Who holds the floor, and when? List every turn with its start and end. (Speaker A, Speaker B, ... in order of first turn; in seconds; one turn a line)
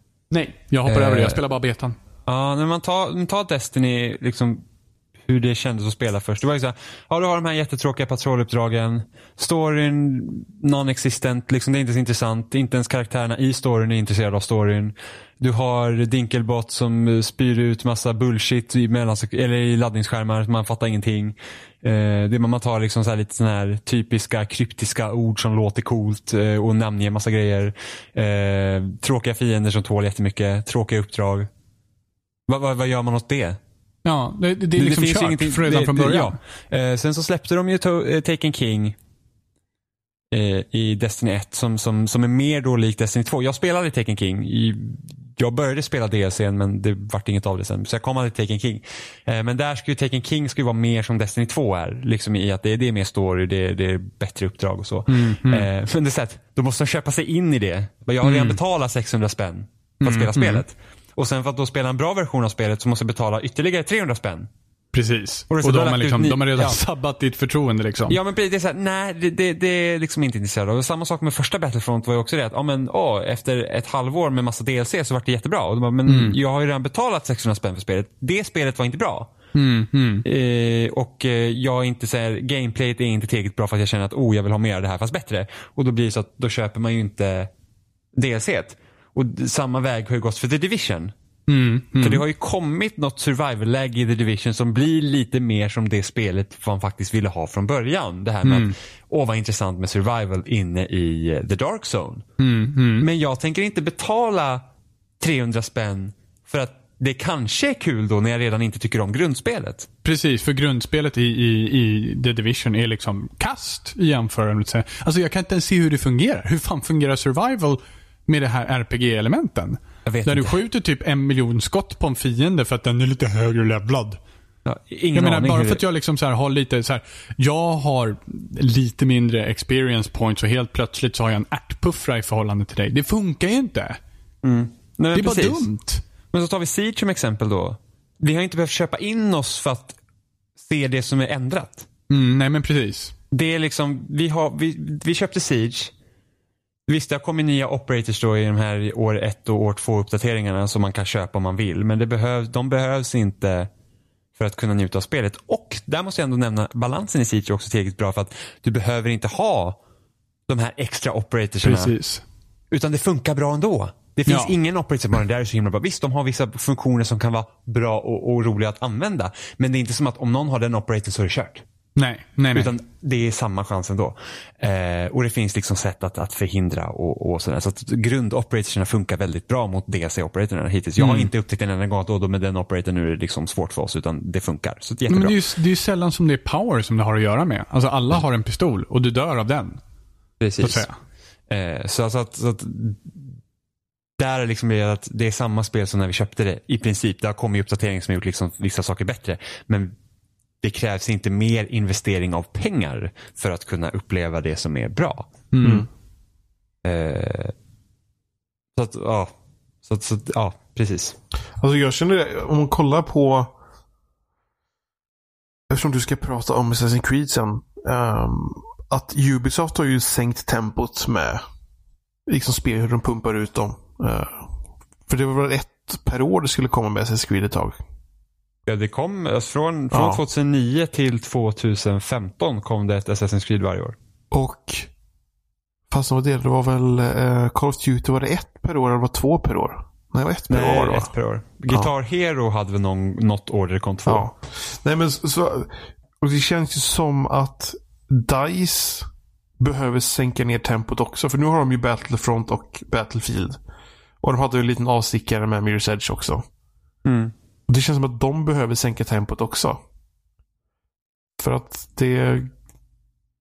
Speaker A: 0.3-1.9
Speaker B: 0.8-1.4
Speaker B: 2.3-4.6
Speaker B: 5.2-31.5
Speaker B: 32.5-33.6
Speaker A: 34.0-36.4
Speaker B: 34.8-39.0
Speaker B: 40.3-64.5
Speaker A: 55.1-55.7
Speaker A: 58.2-58.6
Speaker A: 60.0-60.6
Speaker A: 64.9-68.2
Speaker B: 65.5-66.8
Speaker B: 68.1-79.3
Speaker A: 76.1-76.4
Speaker A: 79.5-80.2
Speaker B: 80.2-87.5
Speaker B: 88.2-91.1
Speaker A: 91.5-92.2
Speaker B: 92.0-102.2
Speaker A: 98.4-98.7
Speaker A: 102.4-103.1
Speaker B: 103.0-104.6
Speaker B: 105.2-109.9
Speaker A: 110.0-124.2
Speaker B: 120.0-120.6
Speaker B: 124.6-125.8
Speaker A: 125.1-134.0
Speaker B: 134.4-135.7
Speaker A: 135.1-136.0
Speaker B: 136.3-140.0
Speaker B: 140.6-141.9
Speaker A: 142.1-143.1
Speaker B: 143.3-145.9
Speaker B: 146.9-153.7
Speaker B: 154.4-159.8
Speaker B: 160.5-161.9
Speaker A: 161.6-162.2
Speaker B: 162.7-171.6
Speaker A: 164.3-164.5
Speaker A: 171.9-172.7
Speaker B: 172.5-185.4
Speaker A: 181.0-181.3
Speaker A: 185.1-189.8
Speaker B: 190.4-190.9
Speaker A: 190.6-190.9
Speaker B: 191.5-193.3
Speaker B: 194.2-199.9
Speaker B: 200.6-205.3
Speaker A: 205.5-205.9
Speaker C: 205.6-205.9
Speaker B: 206.8-207.5
Speaker B: 208.7-209.3
Speaker B: 209.8-211.2
Speaker C: 211.6-213.5
Speaker C: 215.7-221.4
Speaker C: 222.3-224.5
Speaker C: 225.1-227.8
Speaker B: 228.7-233.9
Speaker C: 229.9-230.2
Speaker C: 234.3-234.9
Speaker C: 235.9-241.1
Speaker B: 240.5-244.3
Speaker C: 244.1-249.1
Speaker C: 249.6-253.6
Speaker C: 254.2-256.4
Speaker B: 257.1-257.3
Speaker C: 257.7-259.8
Speaker C: 261.4-262.5